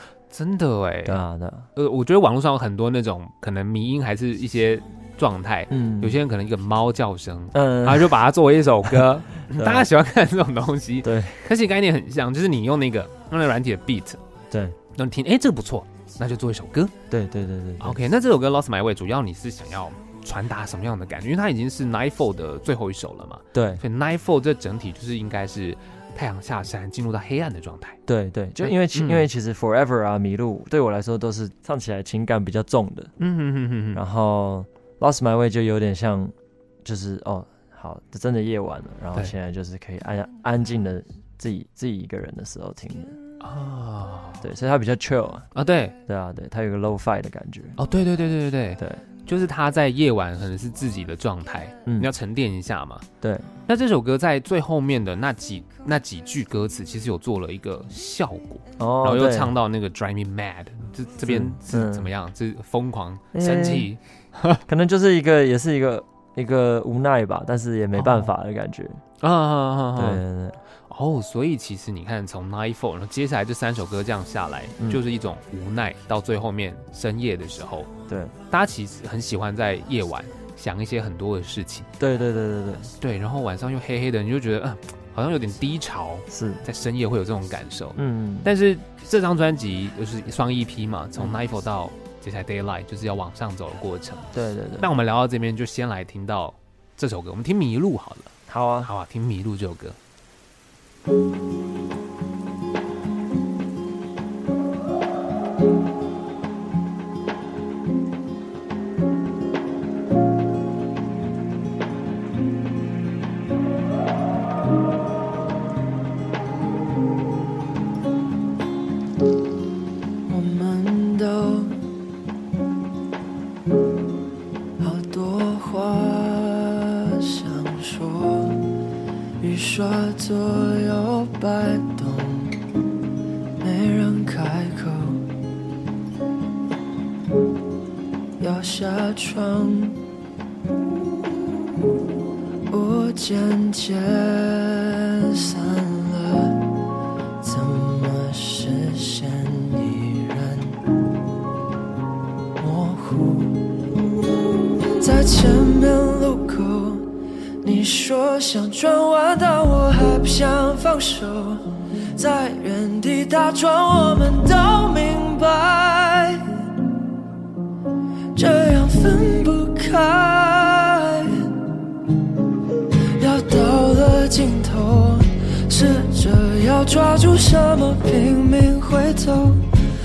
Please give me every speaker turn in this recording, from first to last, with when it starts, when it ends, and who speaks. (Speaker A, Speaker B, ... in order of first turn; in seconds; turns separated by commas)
Speaker A: 0.3-1.2, Speaker B: 1.1-1.7, Speaker A: 1.8-14.2, Speaker B: 5.7-6.2, Speaker B: 7.5-8.2, Speaker B: 8.9-9.9, Speaker B: 11.0-11.5, Speaker B: 14.5-14.8, Speaker A: 14.9-16.9, Speaker B: 17.1-18.0, Speaker A: 17.8-28.0, Speaker B: 23.5-23.8, Speaker B: 28.1-33.1, Speaker A: 28.6-29.3, Speaker A: 33.2-34.0, Speaker B: 33.9-43.2, Speaker A: 43.4-44.4, Speaker B: 44.4-45.5, Speaker A: 45.5-46.0, Speaker B: 46.1-47.8, Speaker A: 47.8-53.0, Speaker B: 48.8-49.0, Speaker B: 53.2-53.5, Speaker A: 53.7-64.6, Speaker B: 58.8-59.5, Speaker B: 61.3-62.1, Speaker B: 63.3-63.9, Speaker B: 64.7-69.0, Speaker A: 68.0-68.3, Speaker A: 69.2-70.2, Speaker B: 70.0-70.6, Speaker A: 70.9-77.9, Speaker B: 78.1-78.3, Speaker A: 78.5-81.9, Speaker B: 82.0-82.9, Speaker A: 83.0-94.3, Speaker B: 86.3-86.6, Speaker B: 88.0-88.5, Speaker B: 94.3-94.9, Speaker A: 94.8-98.3, Speaker B: 98.5-98.9, Speaker A: 98.8-100.0, Speaker C: 120.3-121.8, Speaker C: 124.8-128.7, Speaker C: 129.4-132.6, Speaker C: 133.6-135.3, Speaker C: 138.4-140.0, Speaker C: 141.2-141.8, Speaker C: 142.7-146.7, Speaker C: 147.4-150.8, Speaker C: 152.6-153.9, Speaker C: 155.0-157.1, Speaker C: 157.6-166.5, Speaker C: 168.3-171.5, Speaker C: 173.2-179.7